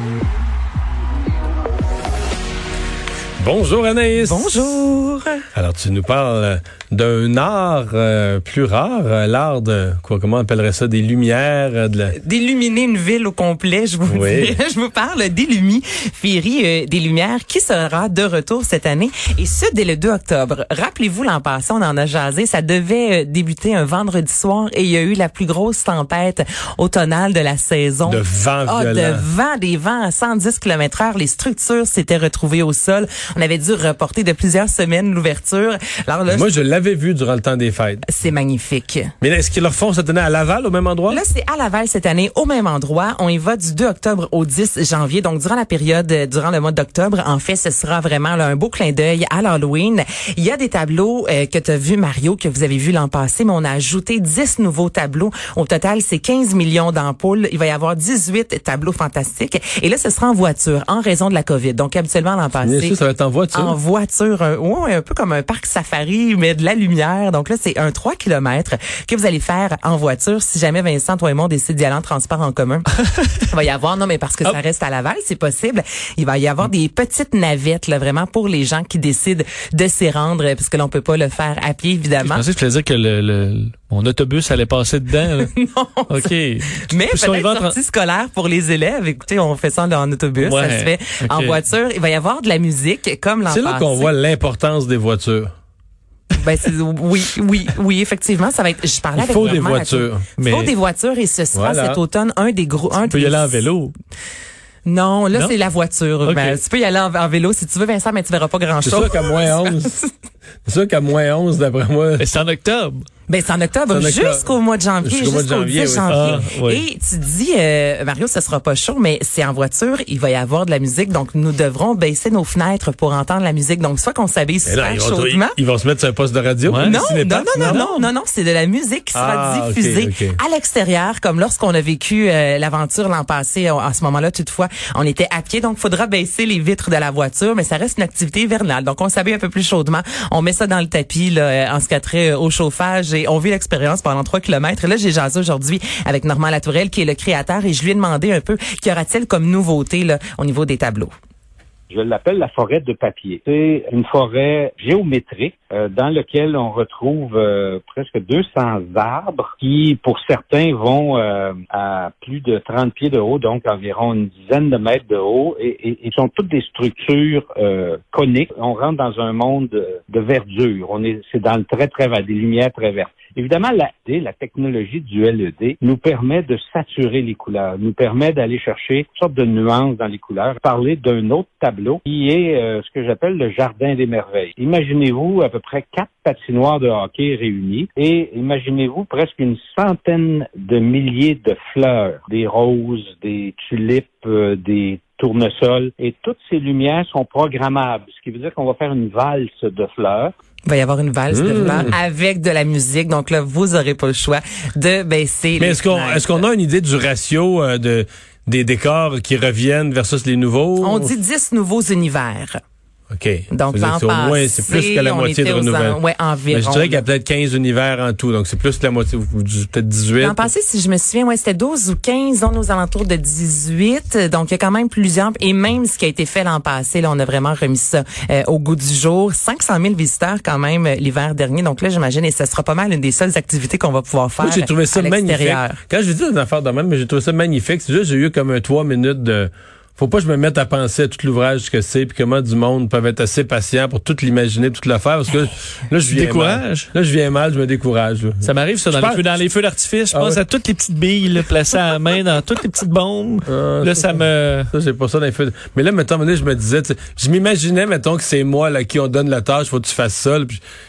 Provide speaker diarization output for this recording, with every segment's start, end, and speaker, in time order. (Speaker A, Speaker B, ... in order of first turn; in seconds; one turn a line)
Speaker A: 3.4-4.7
Speaker B: 4.2-5.4
Speaker A: 5.5-12.1
Speaker B: 12.2-36.5
Speaker A: 14.1-14.6
Speaker A: 28.1-29.2
Speaker A: 36.3-38.0
Speaker B: 38.0-39.1
Speaker A: 39.2-41.2
Speaker B: 41.1-63.0
Speaker A: 62.6-63.7
Speaker B: 63.5-72.9
Speaker B: 73.5-82.4
Speaker C: 82.2-85.5
Speaker B: 85.3-94.1
Speaker C: 86.1-87.8
Speaker C: 90.4-91.6
Speaker A: 93.5-95.5
Speaker B: 96.3-103.7
Speaker A: 99.2-100.2
Speaker C: 100.4-100.7
Speaker A: 101.5-102.0
Speaker C: 103.1-103.9
Speaker B: 104.8-110.1
Speaker C: 106.2-106.6
Speaker A: 108.8-110.0
Speaker A: 110.7-112.2
Speaker C: 112.2-113.0
Speaker B: 113.3-125.6
Speaker A: 113.9-116.4
Speaker C: 116.0-116.8
Speaker A: 124.7-127.8
Speaker C: 126.7-127.0
Speaker B: 126.8-151.1
Speaker C: 127.5-128.1
Speaker A: 129.1-130.4
Speaker D: 151.9-200.3
Speaker B: 200.7-206.4
Speaker A: 201.3-201.9
Speaker A: 205.6-211.1
Speaker B: 210.8-212.6
Speaker A: 213.1-216.0
Speaker B: 213.5-217.0
Speaker A: 216.5-220.5
Speaker B: 220.2-235.8
Speaker A: 234.4-249.2
Speaker C: 246.1-246.9
Speaker C: 248.4-254.7
Speaker A: 250.1-250.4
Speaker A: 253.4-260.6